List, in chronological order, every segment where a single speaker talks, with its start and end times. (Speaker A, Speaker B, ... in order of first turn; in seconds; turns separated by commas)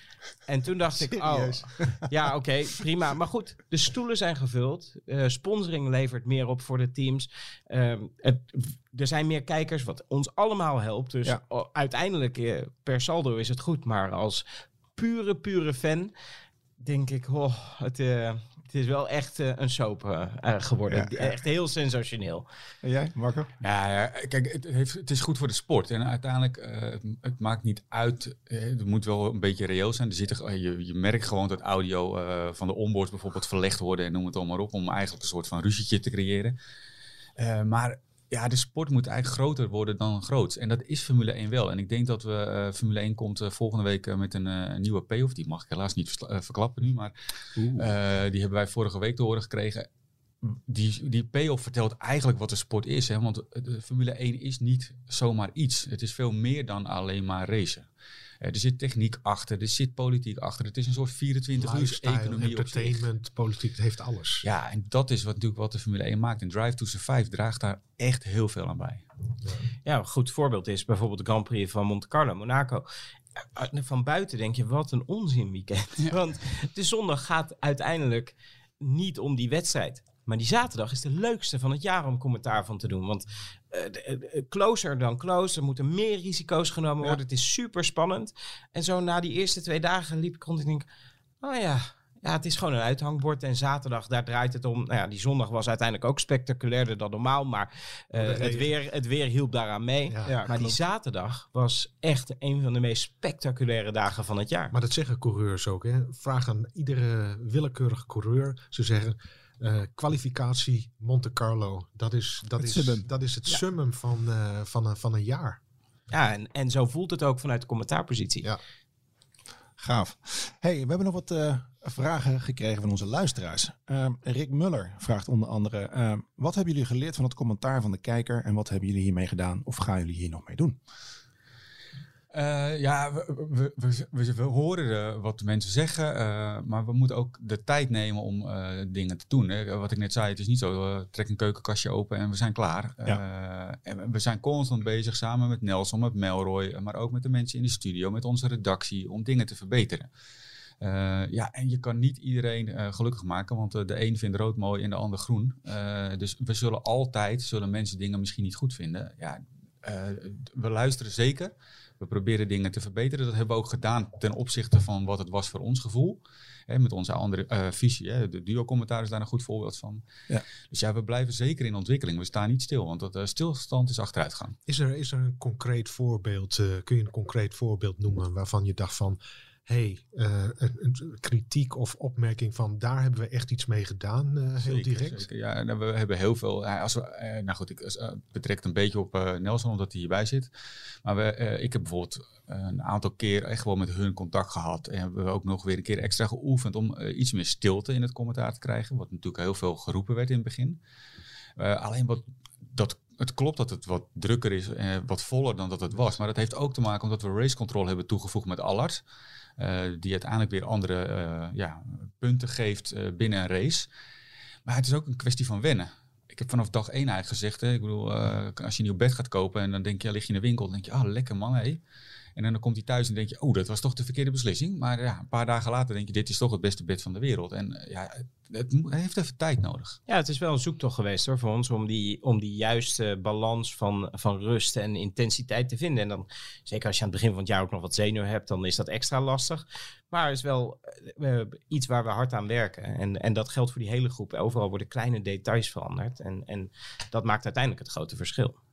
Speaker A: 0.5-14.4, Speaker B: 1.1-2.1, Speaker A: 14.9-16.1, Speaker A: 16.8-22.4, Speaker B: 20.9-21.4, Speaker B: 22.8-23.5, Speaker C: 23.6-36.5, Speaker C: 37.4-47.1, Speaker B: 47.5-47.9, Speaker C: 47.7-49.9, Speaker C: 50.4-57.9, Speaker C: 58.4-63.1, Speaker D: 61.6-64.4, Speaker C: 64.4-69.0, Speaker A: 69.8-72.8, Speaker A: 73.5-90.8, Speaker A: 91.4-104.7, Speaker D: 98.1-98.7, Speaker D: 100.1-100.3, Speaker B: 100.2-100.8, Speaker D: 104.7-115.6, Speaker B: 112.6-113.1, Speaker A: 116.1-118.5, Speaker B: 119.8-130.8, Speaker C: 132.3-150.1, Speaker C: 150.8-170.0, Speaker C: 170.7-174.6, Speaker D: 174.7-185.2, Speaker C: 184.6-190.5, Speaker C: 191.0-200.8, Speaker C: 201.6-209.0, Speaker C: 209.6-213.9, Speaker C: 214.7-221.8, Speaker C: 222.3-230.0, Speaker A: 230.1-248.6